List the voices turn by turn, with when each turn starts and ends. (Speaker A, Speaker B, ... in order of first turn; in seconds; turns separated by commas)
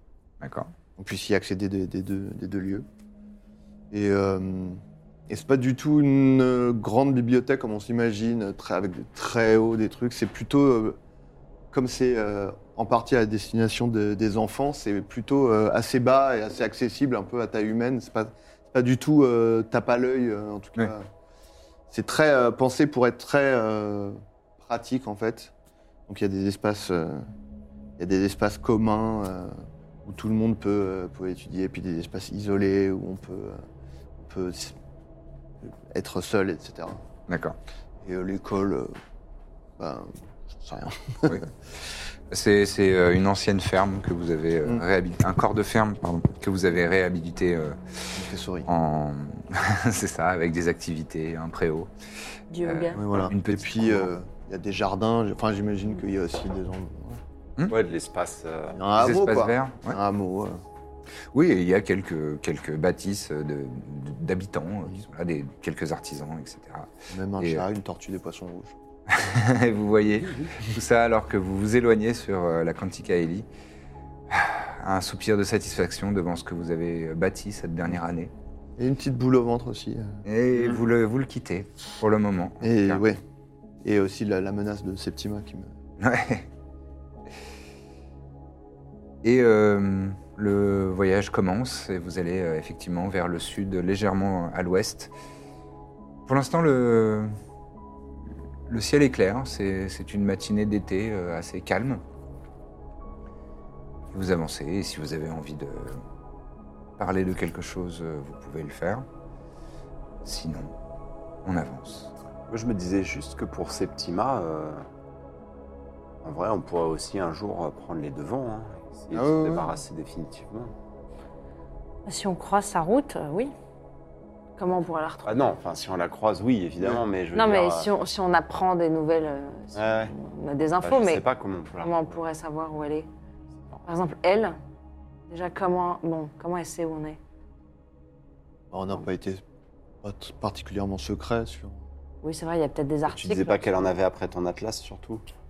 Speaker A: 0.4-0.7, Speaker B: 1.0-2.9, Speaker B: 3.9-11.0, Speaker B: 11.7-21.1, Speaker B: 21.9-25.5, Speaker B: 26.1-27.2, Speaker B: 28.0-33.6, Speaker B: 34.2-34.8, Speaker B: 35.6-37.0, Speaker A: 37.3-37.6, Speaker B: 38.0-39.0, Speaker B: 39.8-41.5, Speaker A: 42.3-51.9, Speaker B: 48.1-48.7, Speaker C: 52.5-53.0, Speaker A: 52.6-54.1, Speaker B: 52.9-57.2, Speaker D: 57.7-58.8, Speaker B: 58.7-60.6, Speaker A: 59.0-60.0, Speaker A: 61.3-67.7, Speaker B: 67.1-68.8, Speaker A: 69.1-73.5, Speaker A: 74.3-78.3, Speaker B: 78.8-80.2, Speaker A: 80.2-83.1, Speaker B: 82.6-83.2, Speaker B: 83.8-85.7, Speaker A: 86.0-86.5, Speaker A: 89.2-95.1, Speaker A: 96.3-97.3, Speaker A: 98.7-102.0, Speaker A: 104.1-106.0, Speaker A: 107.0-109.1, Speaker A: 110.2-110.7, Speaker A: 111.5-112.1, Speaker D: 112.5-114.9, Speaker D: 116.2-120.7, Speaker B: 119.1-119.7, Speaker C: 122.1-123.5, Speaker C: 124.6-125.4, Speaker D: 125.3-127.9, Speaker C: 127.3-131.2, Speaker D: 129.8-130.1, Speaker D: 130.8-132.1, Speaker C: 131.8-133.1, Speaker C: 133.8-134.6, Speaker C: 135.3-137.2, Speaker B: 138.7-139.4, Speaker B: 140.0-141.8, Speaker C: 142.2-143.8, Speaker D: 143.1-145.2